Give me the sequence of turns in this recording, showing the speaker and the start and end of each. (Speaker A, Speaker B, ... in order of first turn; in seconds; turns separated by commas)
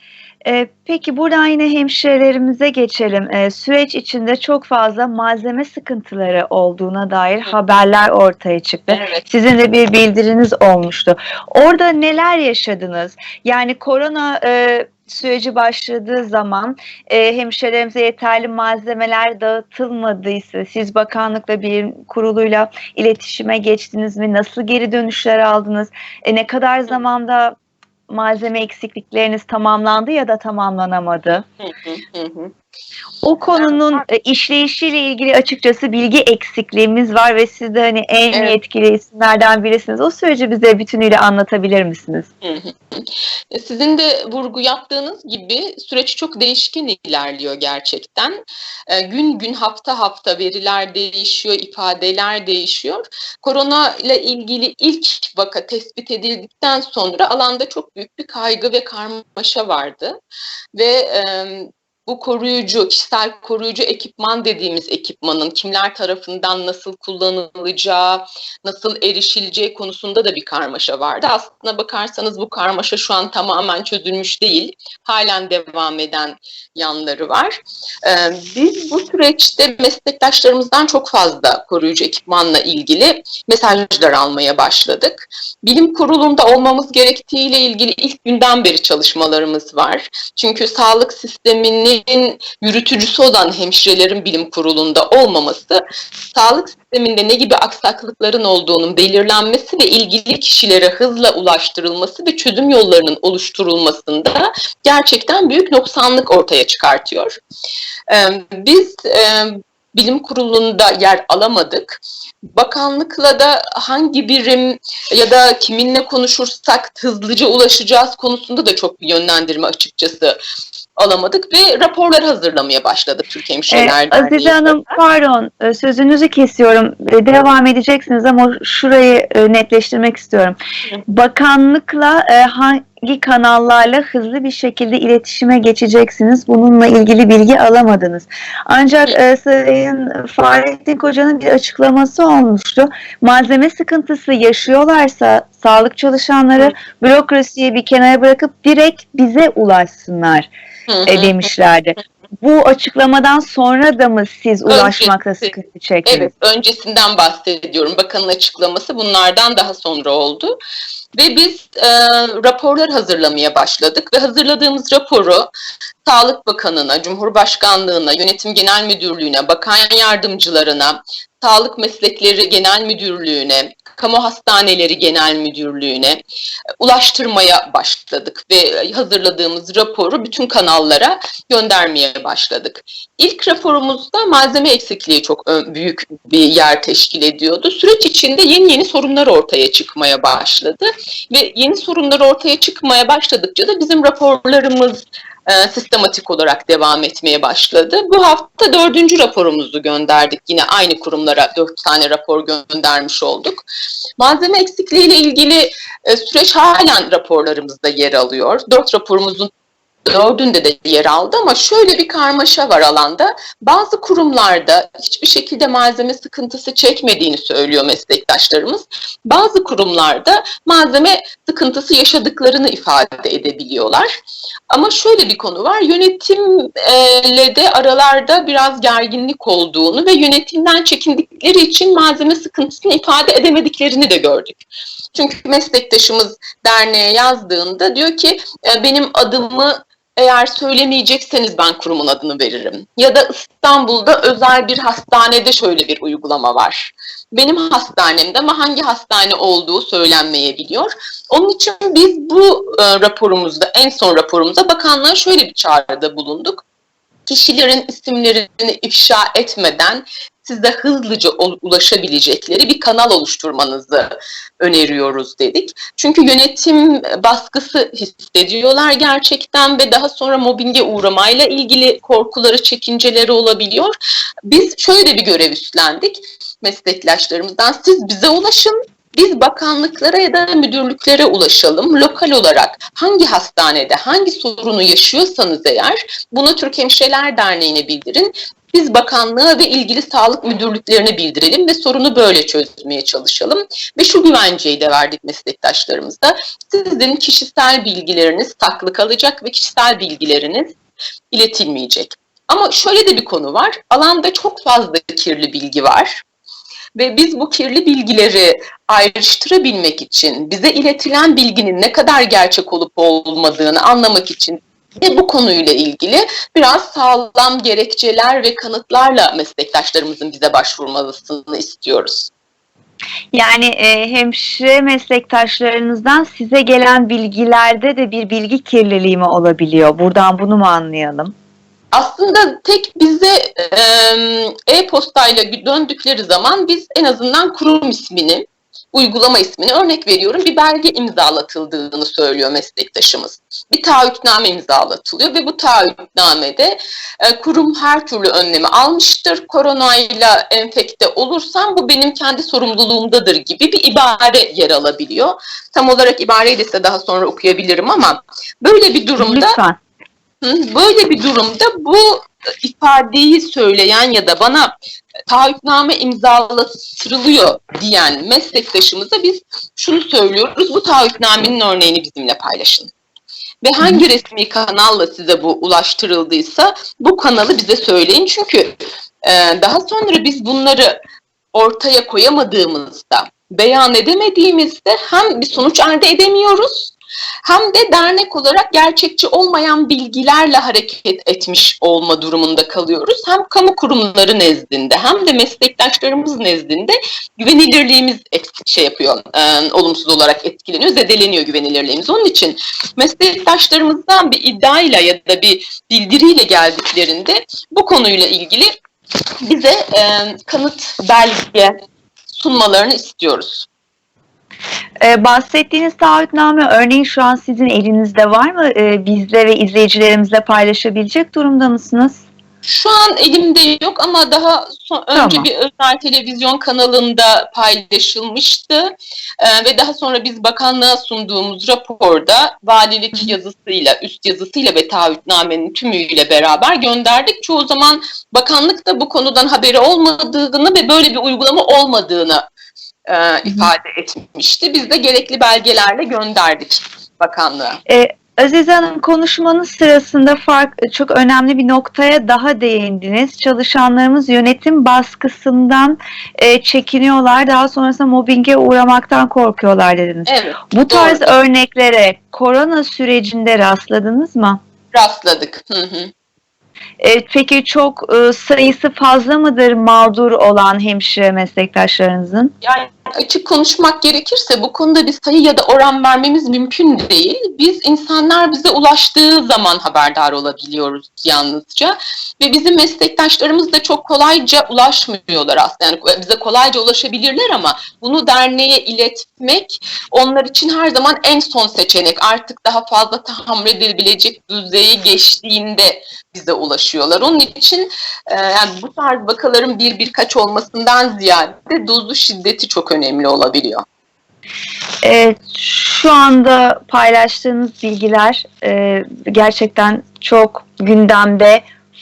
Speaker A: 0.4-27.6, Speaker B: 8.9-9.2, Speaker A: 28.1-31.4, Speaker B: 31.6-32.5, Speaker A: 33.2-42.3, Speaker B: 33.6-34.0, Speaker B: 42.4-60.2, Speaker B: 60.7-95.8, Speaker B: 96.3-107.3, Speaker B: 108.1-112.0, Speaker B: 112.5-120.4, Speaker B: 121.0-125.0, Speaker A: 123.7-150.5, Speaker B: 150.9-151.5, Speaker A: 151.1-156.3, Speaker B: 154.7-155.1, Speaker B: 156.1-160.5, Speaker B: 161.1-165.5, Speaker B: 166.0-176.2, Speaker B: 176.8-203.6, Speaker B: 204.2-209.5, Speaker B: 210.0-224.1, Speaker B: 224.7-234.6, Speaker B: 235.1-256.6, Speaker B: 257.3-273.9, Speaker B: 274.5-300.8, Speaker B: 301.3-306.2, Speaker B: 306.9-322.3, Speaker A: 323.3-331.3, Speaker B: 331.9-359.6, Speaker A: 359.2-359.8, Speaker B: 360.4-364.7, Speaker B: 365.3-372.9, Speaker B: 373.6-380.9, Speaker B: 381.5-386.9, Speaker B: 387.4-408.7, Speaker B: 409.4-411.8, Speaker B: 412.3-413.7, Speaker A: 415.0-422.2, Speaker B: 422.6-442.4, Speaker A: 425.1-425.5, Speaker B: 443.1-447.8, Speaker A: 447.9-464.6, Speaker B: 460.2-461.3, Speaker B: 464.9-466.1, Speaker A: 467.0-472.5, Speaker B: 472.6-503.8, Speaker A: 505.0-511.6